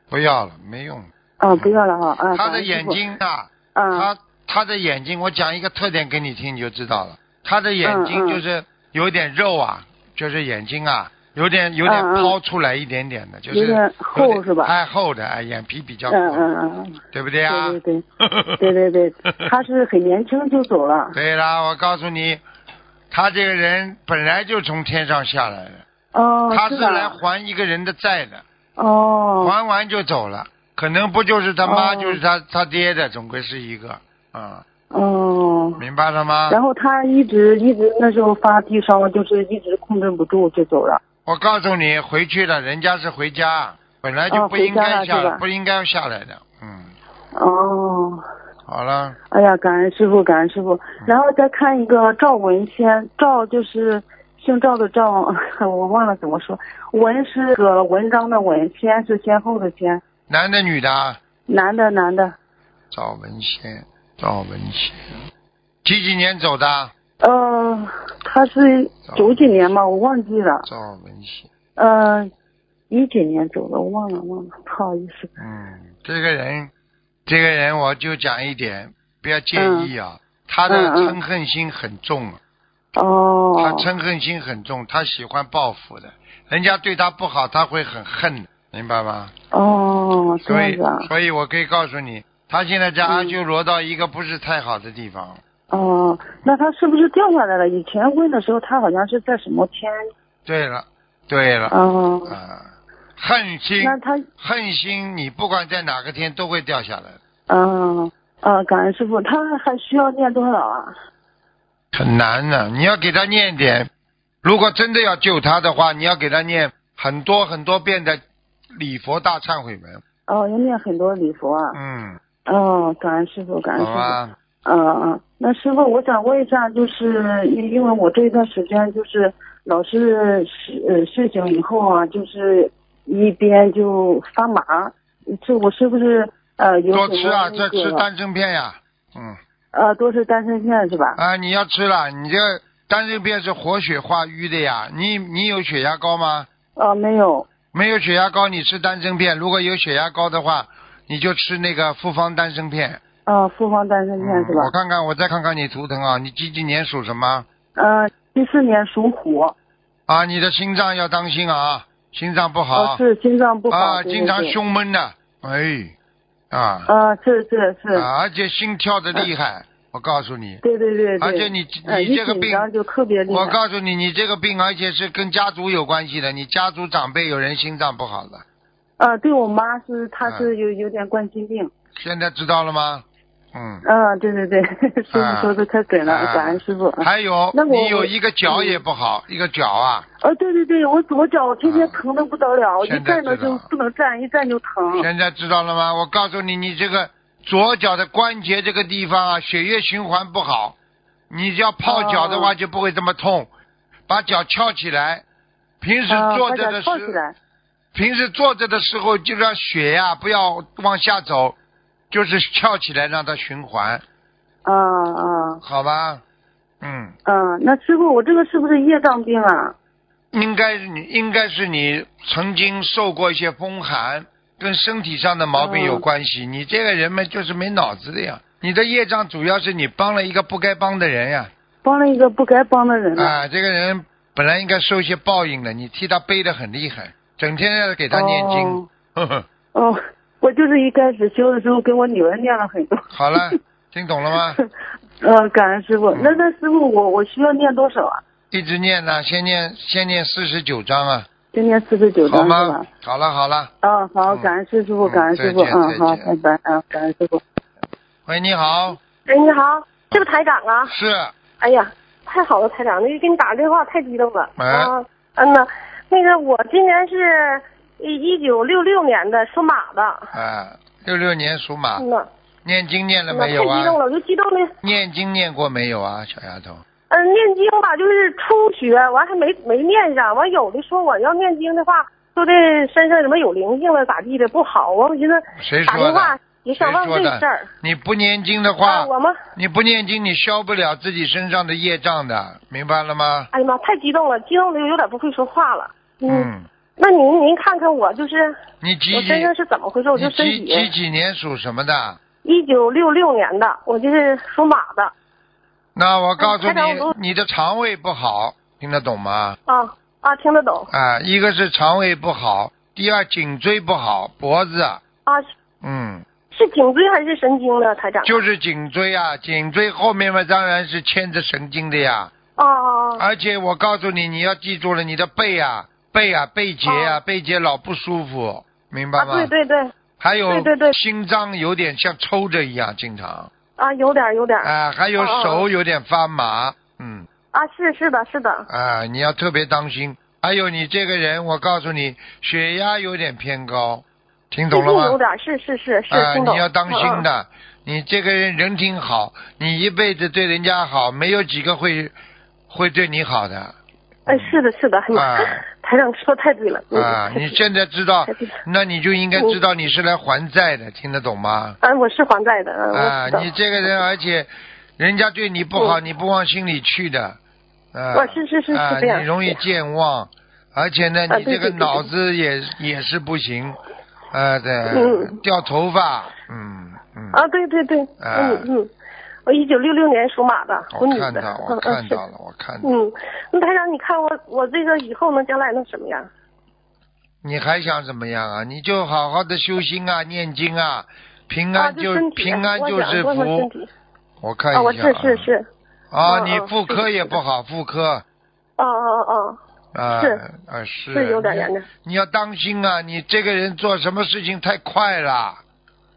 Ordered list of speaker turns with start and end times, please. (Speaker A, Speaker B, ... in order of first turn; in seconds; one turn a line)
Speaker A: 0.1-16.5
Speaker B: 1.4-3.0
Speaker B: 3.7-4.1
Speaker B: 7.8-8.4
Speaker B: 11.8-12.3
Speaker B: 13.5-14.7
Speaker B: 16.1-18.0
Speaker A: 17.1-18.7
Speaker B: 18.6-21.1
Speaker A: 21.1-22.4
Speaker A: 23.1-25.8
Speaker B: 26.1-27.2
Speaker A: 26.5-28.4
Speaker B: 28.8-29.5
Speaker A: 29.4-34.6
Speaker B: 31.6-32.2
Speaker B: 34.9-35.8
Speaker A: 35.8-36.6
Speaker B: 36.5-41.0
Speaker A: 41.2-46.9
Speaker B: 44.3-45.4
Speaker B: 47.3-48.2
Speaker A: 48.6-49.2
Speaker B: 49.3-60.0
Speaker A: 60.3-61.2
Speaker B: 61.5-62.3
Speaker A: 62.9-65.2
Speaker A: 65.8-66.9
Speaker B: 67.2-70.7
Speaker A: 69.1-69.8
Speaker A: 70.7-71.5
Speaker B: 71.8-72.3
Speaker B: 72.9-75.3
Speaker A: 75.4-76.7
Speaker A: 77.3-82.4
Speaker B: 79.5-79.9
Speaker B: 80.7-81.2
Speaker B: 83.0-83.9
Speaker A: 83.6-89.3
Speaker B: 89.5-91.1
Speaker A: 90.5-95.4
Speaker B: 93.0-93.3
Speaker B: 95.7-100.0
Speaker A: 100.5-101.8
Speaker B: 101.7-102.3
Speaker A: 102.3-107.2
Speaker B: 103.8-104.3
Speaker B: 107.5-110.9
Speaker A: 111.9-113.9
Speaker A: 114.4-118.2
Speaker A: 118.8-120.0
Speaker B: 120.3-121.8
Speaker A: 121.7-122.2
Speaker B: 122.4-138.0
Speaker A: 123.8-124.3
Speaker A: 136.9-139.4
Speaker B: 139.7-141.2
Speaker A: 141.2-146.5
Speaker B: 146.8-147.5
Speaker A: 147.7-153.0
Speaker B: 153.2-154.7
Speaker A: 154.2-157.4
Speaker B: 157.8-159.5
Speaker A: 160.1-163.0
Speaker B: 162.7-164.6
Speaker A: 163.7-165.9
Speaker A: 166.5-166.9
Speaker B: 166.9-168.1
Speaker A: 167.9-170.6
Speaker B: 170.6-173.6
Speaker A: 171.2-172.7
Speaker A: 173.3-178.4
Speaker B: 179.0-181.7
Speaker A: 180.2-180.5
Speaker A: 181.9-183.8
Speaker B: 183.8-188.8
Speaker A: 185.1-190.1
Speaker B: 190.2-195.1
Speaker A: 191.6-192.0
Speaker A: 192.8-193.6
Speaker A: 195.0-200.8
Speaker A: 201.3-203.5
Speaker B: 201.8-202.5
Speaker A: 204.1-205.2
Speaker A: 205.8-207.2
Speaker B: 206.1-207.3
Speaker A: 207.9-211.6
Speaker A: 212.1-214.0
Speaker B: 214.6-215.6
Speaker A: 215.6-216.2
Speaker A: 216.8-217.1
Speaker B: 217.2-219.8
Speaker A: 220.3-231.5
Speaker B: 225.6-226.0
Speaker B: 231.8-233.4
Speaker A: 233.2-239.4
Speaker B: 238.1-238.9
Speaker B: 239.7-243.5
Speaker A: 243.1-244.6
Speaker B: 245.2-248.2
Speaker A: 246.1-246.4
Speaker A: 248.5-251.3
Speaker B: 251.5-252.8
Speaker A: 252.2-253.7
Speaker B: 253.8-257.4
Speaker A: 254.3-256.3
Speaker A: 258.2-259.0
Speaker C: 259.2-260.9
Speaker A: 260.8-261.3
Speaker C: 261.6-270.3
Speaker A: 264.6-264.9
Speaker A: 270.3-272.1
Speaker C: 272.0-272.3
Speaker A: 272.6-274.0
Speaker C: 273.3-274.7
Speaker A: 274.8-276.8
Speaker C: 277.1-287.7
Speaker A: 285.6-293.5
Speaker C: 288.8-289.4
Speaker C: 293.5-298.5
Speaker A: 296.3-296.7
Speaker A: 298.8-299.5
Speaker C: 299.1-300.9
Speaker A: 300.1-302.2
Speaker C: 302.4-305.1
Speaker A: 305.9-309.6
Speaker C: 306.4-307.1
Speaker C: 309.7-310.9
Speaker A: 310.9-315.0
Speaker A: 315.8-316.2
Speaker C: 316.5-318.4
Speaker A: 318.2-322.3
Speaker C: 322.6-323.2
Speaker A: 323.2-329.5
Speaker C: 326.9-327.2
Speaker C: 329.2-329.9
Speaker A: 330.2-333.5
Speaker C: 330.5-330.9
Speaker C: 333.8-335.6
Speaker A: 334.6-337.3
Speaker C: 337.5-338.6
Speaker A: 338.7-345.2
Speaker C: 344.7-347.2
Speaker A: 346.1-352.1
Speaker A: 352.7-353.7
Speaker C: 354.3-357.6
Speaker A: 354.3-354.6
Speaker A: 355.1-355.6
Speaker A: 356.9-361.8
Speaker C: 358.3-358.5
Speaker C: 361.8-363.9
Speaker A: 362.9-367.4
Speaker A: 367.9-373.8
Speaker C: 368.1-369.6
Speaker C: 371.3-372.1
Speaker A: 374.3-377.4
Speaker C: 374.9-375.4
Speaker C: 377.3-378.9
Speaker A: 378.2-378.7
Speaker C: 379.4-382.2
Speaker A: 380.9-382.9
Speaker C: 382.8-386.3
Speaker A: 387.4-393.7
Speaker C: 391.7-393.9
Speaker A: 394.4-395.5
Speaker C: 394.7-395.7
Speaker A: 396.1-398.2
Speaker C: 396.2-397.4
Speaker C: 398.8-399.6
Speaker A: 399.9-405.6
Speaker C: 400.1-400.4
Speaker C: 401.1-401.9